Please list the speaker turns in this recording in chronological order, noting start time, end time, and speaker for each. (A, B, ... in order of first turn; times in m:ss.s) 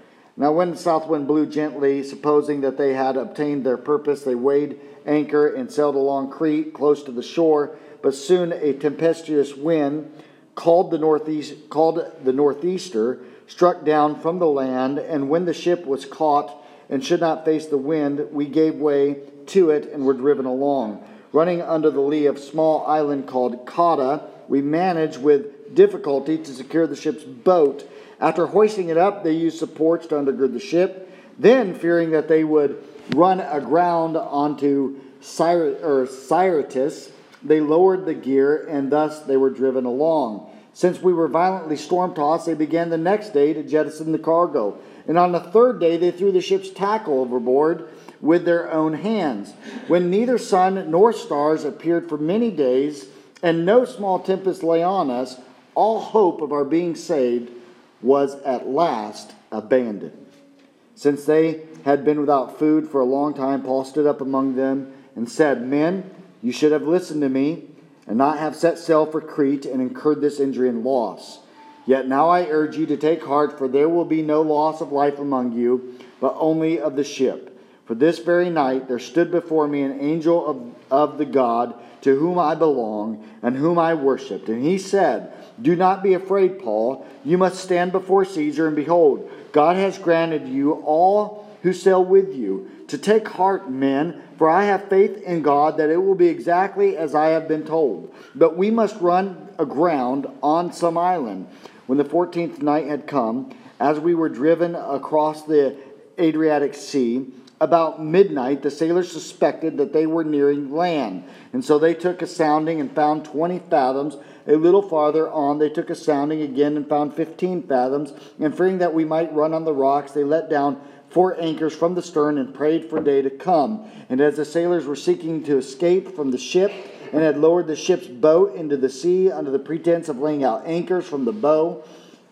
0:00.4-1:00.2 A
1:01.0-2:11.8 A